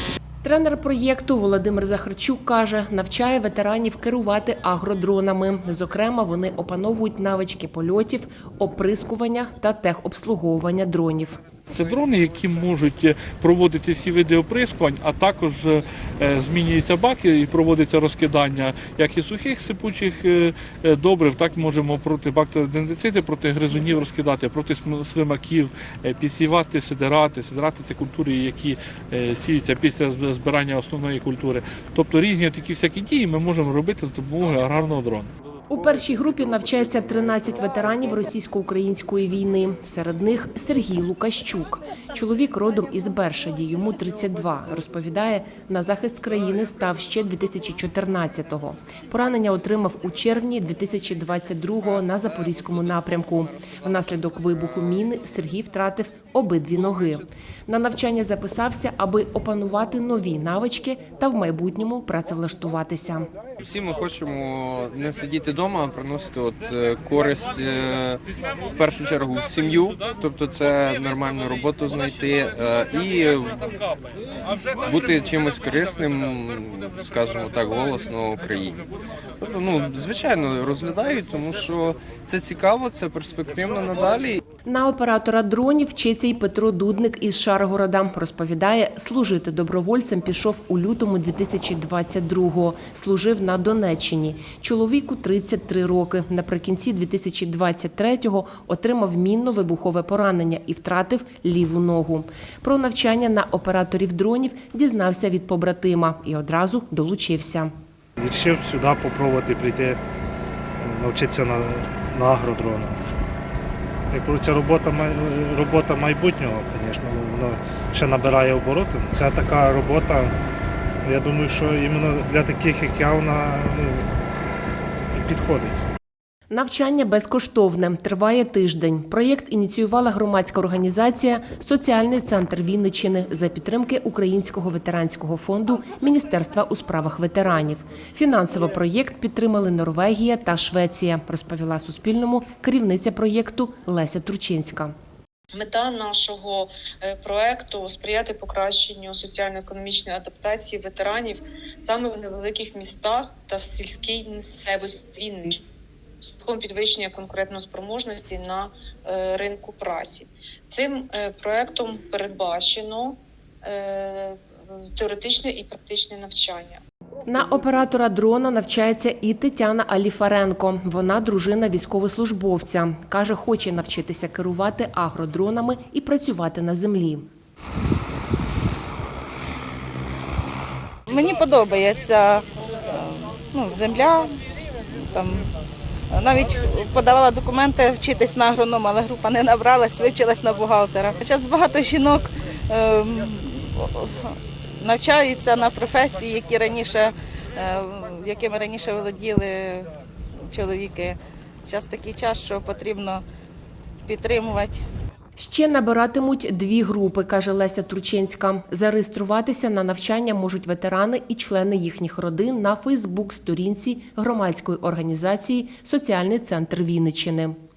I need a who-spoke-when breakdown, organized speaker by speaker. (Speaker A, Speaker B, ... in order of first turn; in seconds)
Speaker A: 0.4-11.4, 35.7-63.3, 84.7-107.7, 126.5-144.9, 167.3-177.3, 205.4-217.6
Speaker B: 11.7-35.3
Speaker C: 63.6-73.8, 74.6-78.9, 79.4-84.4
Speaker D: 108.2-110.0, 110.8-113.0, 114.1-120.3, 121.0-124.1, 125.1-125.8
Speaker E: 145.5-155.6, 156.4-166.8
Speaker F: 181.1-184.4, 184.9-185.5, 186.1-203.2, 204.1-204.8